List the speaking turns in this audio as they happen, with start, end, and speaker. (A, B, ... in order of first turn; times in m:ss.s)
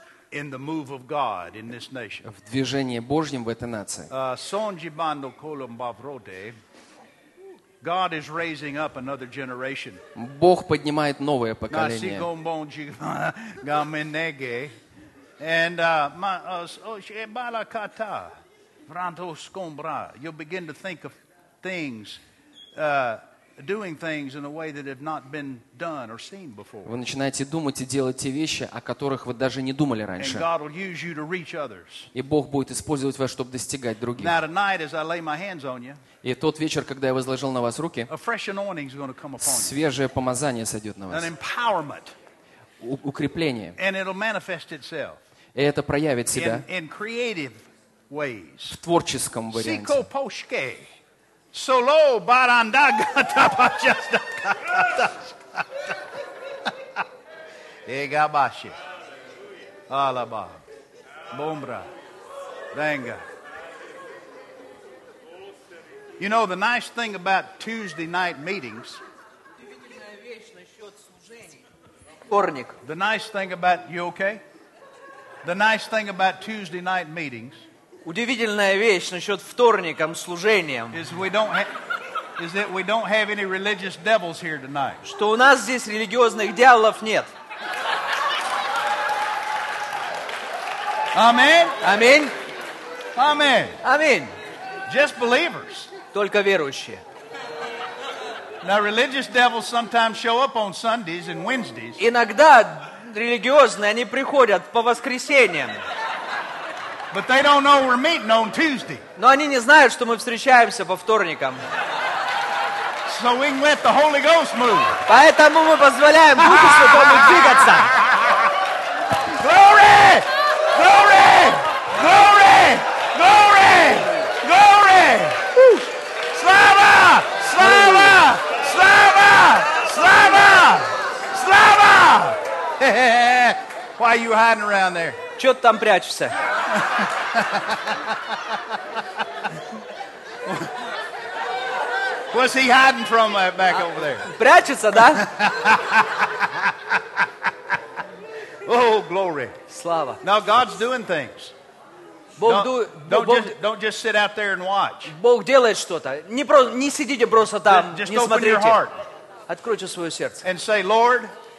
0:00.3-0:02.2 A
0:02.2-0:04.1 B
0:04.1-0:06.6 A
0:07.8-0:10.0 A
0:10.2-0:12.3 B
0:11.7-0:14.8 A
0:15.4-0:22.2 A
0:22.8-0:27.0 A
0:26.8-0:30.4 B
0:30.2-0:32.1 A
0:32.1-0:34.4 B
0:34.2-0:36.0 A
0:36.2-0:38.1 B
0:38.1-0:39.7 A
0:39.4-0:41.3 B
0:41.1-0:42.1 A
0:42.8-0:43.7 B
0:43.8-0:45.2 A
0:45.6-0:46.6 B
0:46.3-0:48.8 A
0:48.7-0:50.0 B
0:49.5-0:50.9 A
0:51.5-0:56.0 A
0:57.8-0:58.8 A
0:59.9-1:00.6 A
1:01.3-1:01.9 A
1:02.7-1:03.2 A
1:06.2-1:09.0 A
1:09.7-1:11.6 C
1:12.3-1:12.8 C
1:12.8-1:14.4 A
1:15.4-1:17.6 A
1:18.0-1:21.0 C
1:20.9-1:21.7 A
1:22.4-1:25.0 A
1:25.0-1:27.3 C
1:31.1-1:31.8 A
1:31.8-1:32.3 C
1:33.2-1:33.8 A
1:33.8-1:34.3 C
1:34.9-1:35.9 A
1:36.1-1:37.0 C
1:38.6-1:42.0 A
1:42.0-1:45.8 C
1:47.1-1:49.1 A
1:49.2-1:51.6 C
1:53.1-1:55.1 A
1:55.1-1:57.9 C
1:56.4-1:58.4 A
1:59.3-2:15.2 A
2:07.6-2:08.2 C
2:15.4-2:16.4 C
2:16.7-2:18.6 A
2:22.3-2:24.3 A
2:24.2-2:25.3 C
2:25.1-2:27.0 A
2:28.6-2:29.6 A
2:29.7-2:30.2 C
2:30.2-2:31.5 A
2:32.4-2:33.6 C
2:32.4-2:35.2 A
2:35.1-2:38.9 C
2:37.6-2:39.0 A
2:39.5-2:40.4 C
2:40.4-2:41.3 A